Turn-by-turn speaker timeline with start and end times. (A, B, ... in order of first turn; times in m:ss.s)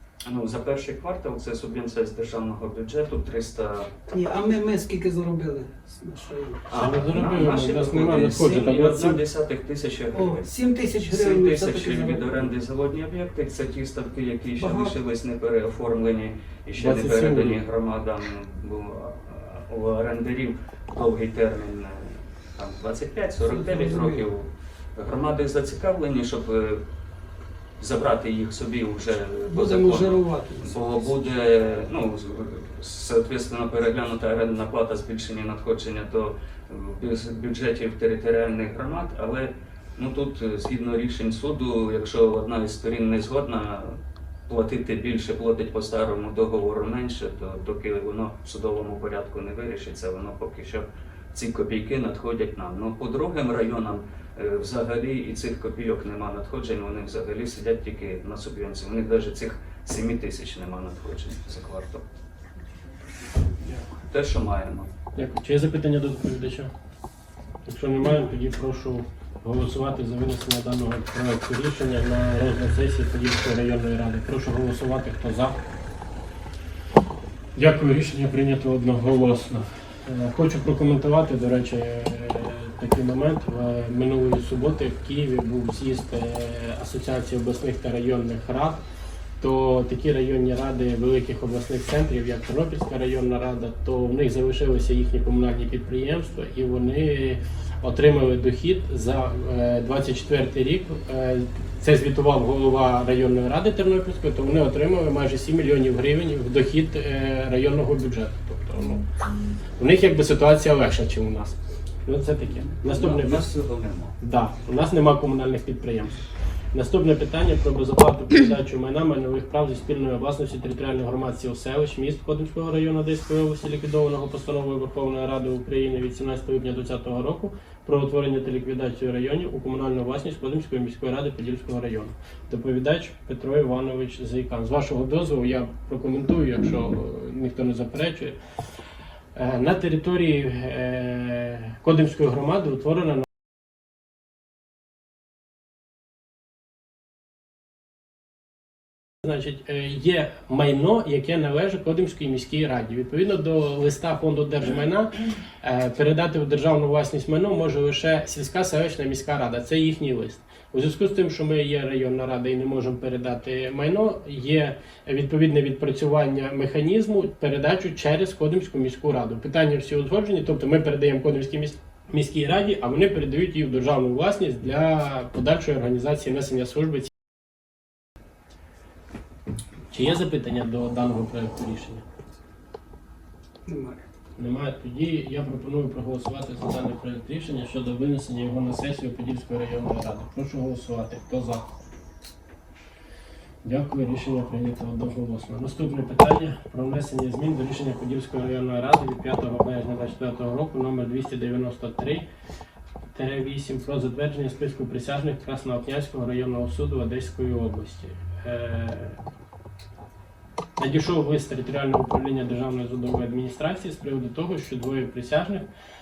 0:00.3-0:03.9 A
0:04.1-0:06.7 B
0:06.7-0:26.8 A
0:06.7-0:09.2 C
0:10.1-0:12.4 B
0:14.6-0:15.0 B
0:16.8-0:17.6 C
0:23.6-0:24.2 B
0:27.8-1:02.0 A
0:29.5-0:31.1 B
1:03.9-1:04.9 A
1:05.1-1:06.7 C
1:07.6-1:15.6 C
1:17.5-1:28.8 C
1:29.4-1:49.0 C
1:49.8-1:53.5 C
1:52.8-1:54.2 A
1:54.2-1:56.2 C
1:56.7-2:18.4 C
2:19.3-2:23.3 C
2:29.2-2:57.1 C
2:59.9-3:02.0 C
3:03.6-3:04.0 B
3:04.4-3:11.6 C
3:13.6-3:22.2 C
3:23.1-3:29.2 C
3:30.8-3:35.6 C